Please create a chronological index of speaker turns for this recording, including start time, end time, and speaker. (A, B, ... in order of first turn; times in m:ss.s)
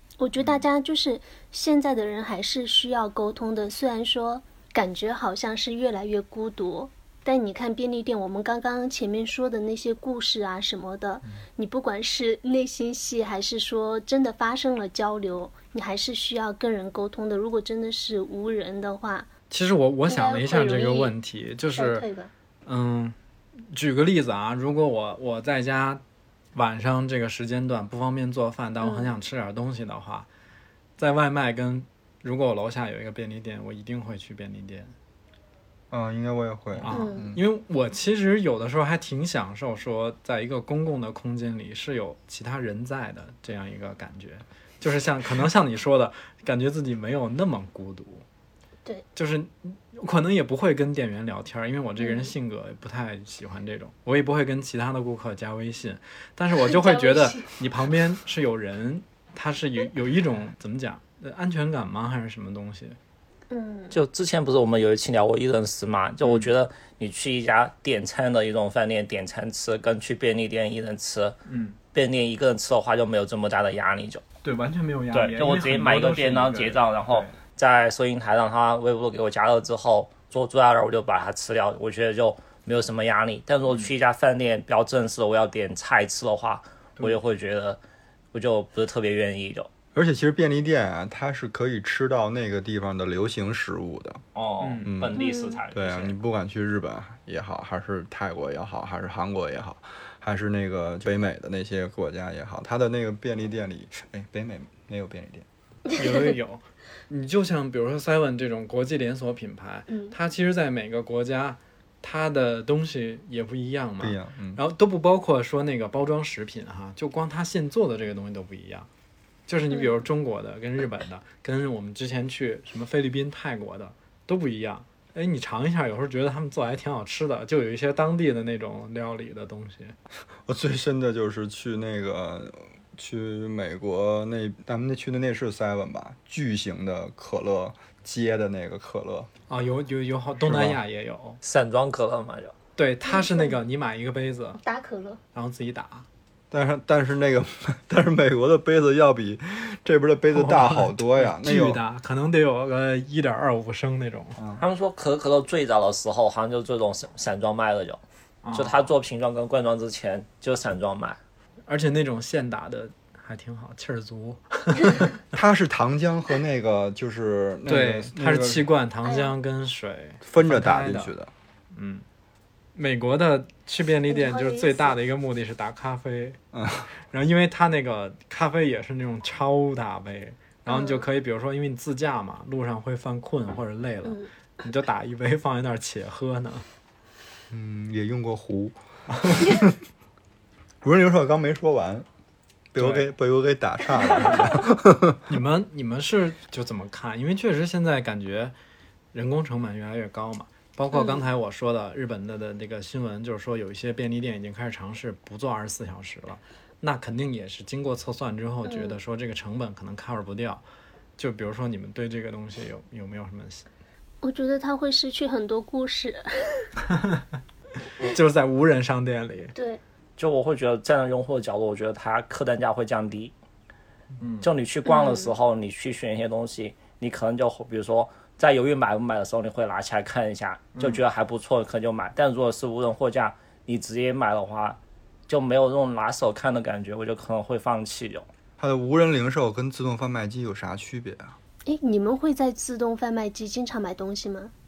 0:00.2-0:19.3 A
0:19.5-0:22.1 B
0:20.1-0:21.1 A
0:21.8-0:22.3 A
0:22.7-0:23.2 B
0:23.7-0:26.0 B
0:26.6-0:30.3 B
0:28.8-0:29.1 A
0:31.0-0:34.9 B
0:35.9-0:37.4 C
0:36.7-0:48.2 B
0:36.9-0:37.3 A
0:49.2-1:03.0 B
0:52.0-0:52.3 A
0:56.6-0:57.5 A
1:03.5-1:04.0 A
1:03.9-1:11.4 D
1:11.5-1:11.8 B
1:11.9-1:14.2 D
1:14.4-1:17.4 B
1:15.1-1:27.8 D
1:28.3-1:29.7 D
1:29.9-1:34.2 C
1:34.4-1:36.2 D
1:34.6-1:34.9 B
1:34.8-1:45.5 C
1:35.2-1:35.6 A
1:45.9-1:58.9 B
1:49.9-1:50.2 A
1:54.0-1:54.6 C
1:59.5-2:10.0 B
1:59.7-2:00.0 A
2:10.5-2:19.3 C
2:19.5-2:21.4 B
2:20.4-2:20.8 C
2:21.4-2:22.5 D
2:22.8-2:24.6 B
2:23.1-2:23.6 A
2:24.6-2:25.2 A
2:25.3-2:26.1 B
2:26.5-2:31.8 C
2:30.3-2:34.4 B
2:34.4-2:34.6 C
2:34.6-2:38.0 D
2:38.4-2:38.9 B
2:38.5-2:41.2 D
2:41.7-2:45.2 B
2:45.3-2:48.7 C
2:47.7-2:51.1 B
2:49.0-2:49.4 A
2:50.2-2:51.3 C
2:51.7-2:52.0 B
2:52.8-2:56.4 B
2:54.1-2:55.0 A
2:56.5-2:56.9 C
2:57.1-3:06.6 B
3:00.7-3:01.1 A
3:07.5-3:08.8 C
3:09.3-3:09.7 C
3:10.8-3:12.1 C
3:12.7-3:15.2 C
3:12.8-3:13.1 B
3:15.3-3:18.6 B
3:19.1-3:30.6 B
3:20.9-3:21.3 A
3:28.6-3:29.0 A
3:31.2-3:33.7 B
3:34.2-3:36.7 A
3:36.9-3:37.2 B
3:38.0-3:39.5 B
3:39.5-3:39.8 A
3:40.2-3:43.3 D
3:44.2-3:44.5 B
3:44.4-3:58.3 D
3:44.9-3:45.3 A
3:58.6-4:01.4 C
4:01.7-4:04.5 A